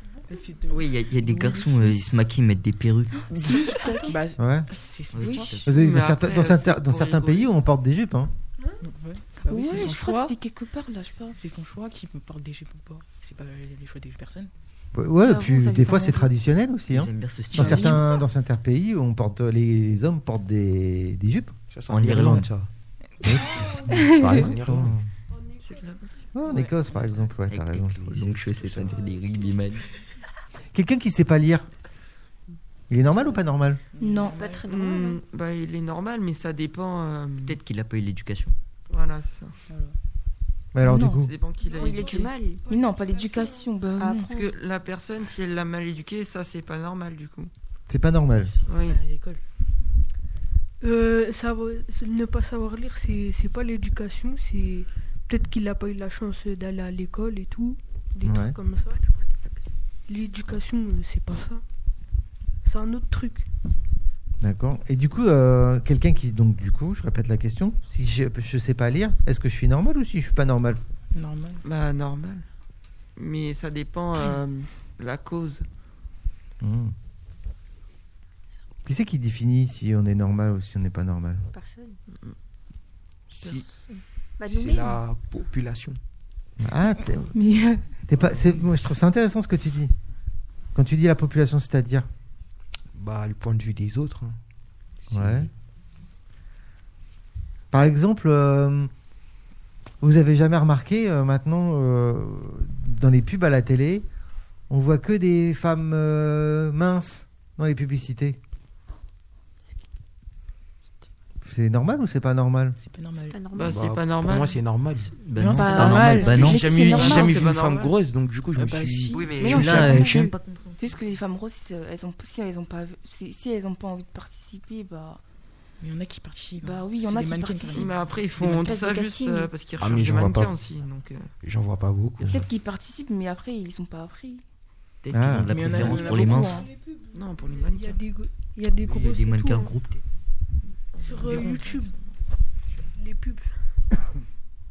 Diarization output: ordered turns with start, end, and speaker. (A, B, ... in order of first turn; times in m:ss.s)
0:00.3-0:02.0 A
0:00.7-0:03.4 B
0:03.3-0:05.6 A
0:03.3-0:04.2 C
0:04.4-0:04.7 D
0:05.1-0:05.7 B
0:05.2-0:05.6 C
0:05.6-0:08.3 D
0:05.7-0:07.5 E
0:08.8-0:10.4 A
0:09.4-0:11.4 C
0:11.4-0:14.5 A
0:14.9-0:21.5 D
0:15.2-0:16.3 C
0:16.9-0:18.0 B
0:17.5-0:18.0 C
0:21.7-0:22.7 F
0:21.9-0:22.5 B
0:22.2-0:22.4 D
0:23.2-0:25.0 D
0:23.5-0:24.9 F
0:23.9-0:24.5 C
0:25.3-0:26.0 G
0:25.6-0:26.1 E
0:26.3-0:28.1 D
0:26.4-0:27.3 A
0:27.5-0:29.8 B
0:27.9-0:29.0 F
0:30.7-0:31.7 D
0:32.9-0:33.8 D
0:34.0-0:34.6 A
0:34.0-0:34.4 C
0:34.3-0:35.2 H
0:34.6-0:37.6 E
0:37.4-0:38.5 B
0:38.9-0:39.6 E
0:39.7-0:40.0 A
0:40.7-0:41.3 D
0:40.8-0:41.3 C
0:40.9-0:42.3 E
0:41.7-0:42.6 H
0:41.7-0:42.0 G
0:42.6-0:44.3 C
0:42.7-0:43.7 G
0:44.0-0:44.6 H
0:44.2-0:47.5 E
0:47.9-0:48.5 D
0:48.4-0:49.4 A
0:48.7-0:49.0 E
0:50.8-0:59.0 G
0:58.2-0:58.5 D
1:00.1-1:01.6 G
1:02.6-1:03.5 G
1:04.4-1:10.8 D
1:11.1-1:11.6 A
1:11.6-1:12.4 E
1:13.2-1:15.6 E
1:16.6-1:16.9 D
1:18.8-1:21.5 D
1:21.5-1:22.0 H
1:23.3-1:23.7 F
1:23.4-1:23.6 E
1:24.4-1:25.0 H
1:24.4-1:26.0 F
1:26.6-1:27.3 D
1:27.3-1:28.0 C
1:28.1-1:29.9 D
1:30.7-1:32.1 D
1:33.0-1:34.4 F
1:35.0-1:35.5 F
1:35.1-1:35.5 D
1:37.7-1:38.9 D
1:40.0-1:44.0 D
1:44.7-1:48.4 D
1:51.4-1:52.8 D
1:52.8-1:53.4 A
1:53.1-1:53.8 H
1:53.5-1:54.6 E
1:53.7-1:55.2 F
1:55.1-1:56.6 B
1:55.3-1:56.8 A
1:55.4-1:57.5 C
1:55.8-2:00.4 F
1:56.7-1:57.9 E
1:58.5-1:59.9 A
1:59.1-2:00.7 B
1:59.3-2:05.2 C
2:05.8-2:08.8 A
2:06.6-2:08.0 C
2:07.7-2:11.3 E
2:08.4-2:09.5 H
2:09.8-2:10.5 F
2:11.4-2:12.5 F
2:12.2-2:14.4 C
2:15.0-2:16.6 B
2:15.1-2:15.7 D
2:15.4-2:16.7 A
2:16.4-2:19.7 G
2:17.1-2:18.0 E
2:18.8-2:20.0 B
2:21.0-2:21.9 G
2:21.0-2:21.9 A
2:22.9-2:23.6 G